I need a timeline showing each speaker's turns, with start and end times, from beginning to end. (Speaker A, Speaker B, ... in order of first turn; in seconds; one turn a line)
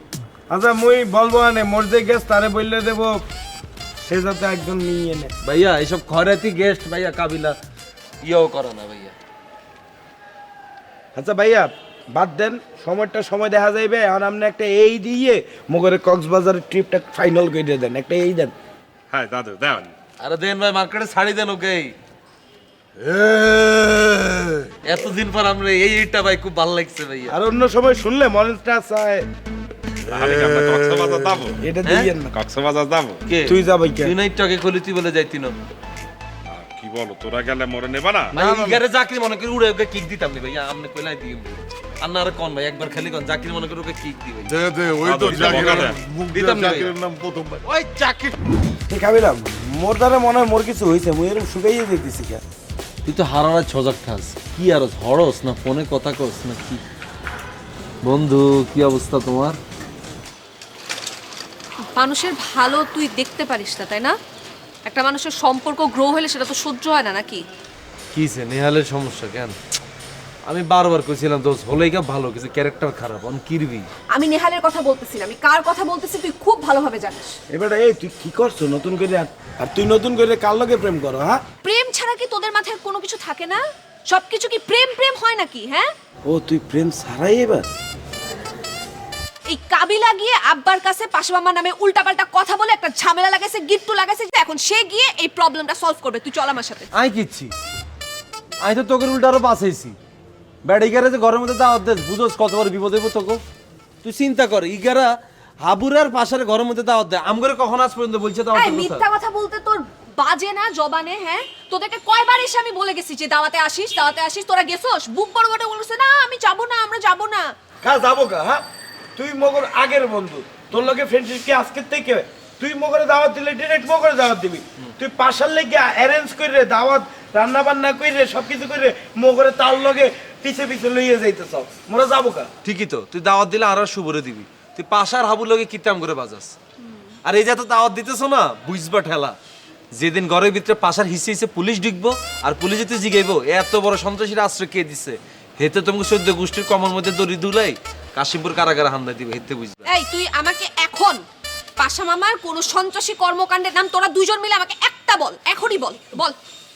Speaker A: 0.5-3.2
Speaker A: 4.0-5.3
Speaker B: 5.4-7.6
Speaker B: 8.2-9.1
Speaker A: 11.1-18.5
Speaker C: 19.1-19.9
Speaker B: 20.2-21.9
Speaker D: 23.0-24.6
Speaker B: 24.8-27.4
Speaker A: 27.3-29.3
Speaker C: 30.0-31.6
Speaker A: 31.6-32.3
Speaker B: 31.8-32.1
Speaker C: 32.3-33.2
Speaker B: 33.2-35.5
Speaker A: 33.4-34.1
Speaker C: 36.5-38.4
Speaker B: 38.3-44.6
Speaker D: 38.4-38.8
Speaker D: 44.5-47.7
Speaker C: 45.0-46.0
Speaker B: 45.2-47.0
Speaker B: 47.7-48.3
Speaker A: 48.9-52.4
Speaker B: 53.0-56.8
Speaker B: 58.0-59.6
Speaker E: 62.0-64.2
Speaker E: 64.8-67.5
Speaker B: 68.1-69.5
Speaker B: 70.5-73.9
Speaker E: 74.1-77.3
Speaker A: 77.5-81.4
Speaker E: 81.6-85.9
Speaker A: 86.2-87.7
Speaker E: 89.5-96.9
Speaker B: 96.9-97.5
Speaker B: 98.6-100.0
Speaker B: 100.6-103.4
Speaker B: 104.0-109.0
Speaker E: 108.5-117.5
Speaker A: 117.8-118.6
Speaker A: 119.2-132.5
Speaker B: 132.6-136.6
Speaker B: 137.2-139.3
Speaker B: 139.9-149.8
Speaker E: 149.9-151.2
Speaker E: 151.8-156.3